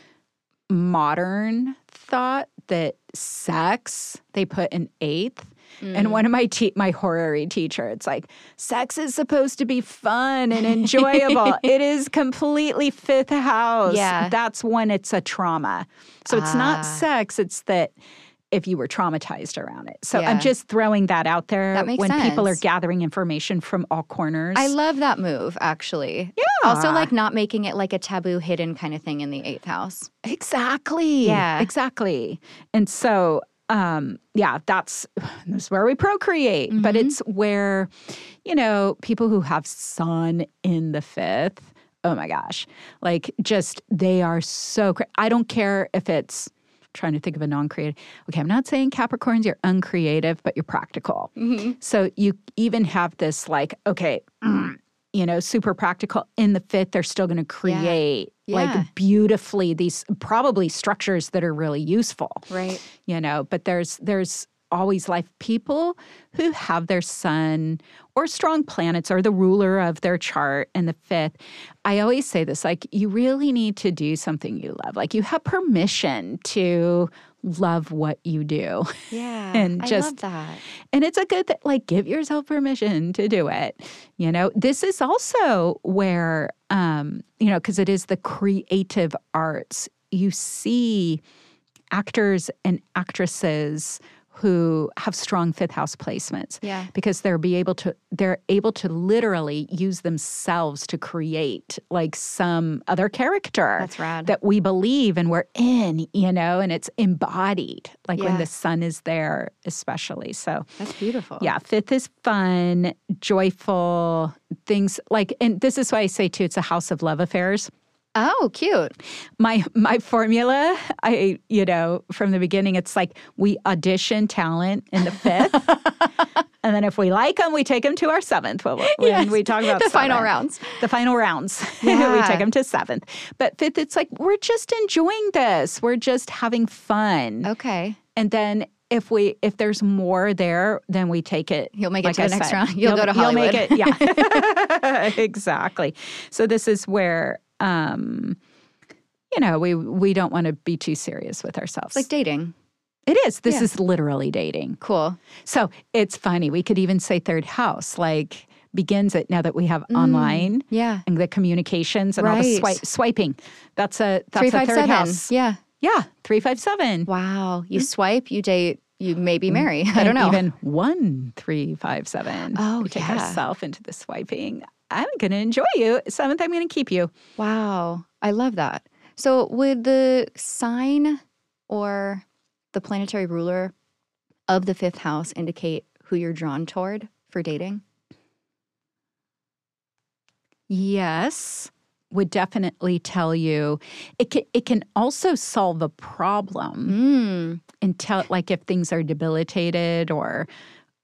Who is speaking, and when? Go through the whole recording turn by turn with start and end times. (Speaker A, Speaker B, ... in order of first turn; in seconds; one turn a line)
Speaker A: 0.7-17.9
Speaker B: 5.8-6.2
Speaker B: 10.8-11.6
Speaker B: 13.9-14.3
Speaker B: 16.3-17.0
Speaker A: 18.5-24.7
Speaker B: 20.1-20.5
Speaker B: 21.7-22.6
Speaker B: 24.6-30.1
Speaker A: 26.4-27.1
Speaker A: 30.2-37.9
Speaker B: 31.2-31.7
Speaker B: 36.7-37.1
Speaker A: 38.4-80.2
Speaker B: 51.4-51.8
Speaker B: 57.6-58.9
Speaker B: 62.5-62.9
Speaker B: 79.1-80.6
Speaker A: 80.9-91.2
Speaker A: 91.9-110.7
Speaker B: 96.6-96.9
Speaker B: 103.8-104.3
Speaker B: 108.2-108.5
Speaker B: 110.8-111.5
Speaker A: 111.4-117.7
Speaker B: 118.2-119.0
Speaker A: 119.4-137.5
Speaker B: 128.8-130.8
Speaker B: 131.8-132.5
Speaker B: 137.4-138.0
Speaker A: 138.2-148.4
Speaker B: 141.8-144.5
Speaker A: 149.3-152.1
Speaker B: 151.9-152.5
Speaker A: 153.1-154.8
Speaker B: 154.8-155.2
Speaker A: 155.4-167.1
Speaker B: 159.9-161.0
Speaker B: 162.2-162.8
Speaker B: 164.4-165.6
Speaker B: 167.1-170.4
Speaker A: 169.5-177.1
Speaker B: 172.5-173.4
Speaker B: 177.4-183.7
Speaker B: 184.5-187.8
Speaker A: 190.7-196.9
Speaker B: 196.9-197.6
Speaker A: 197.8-200.5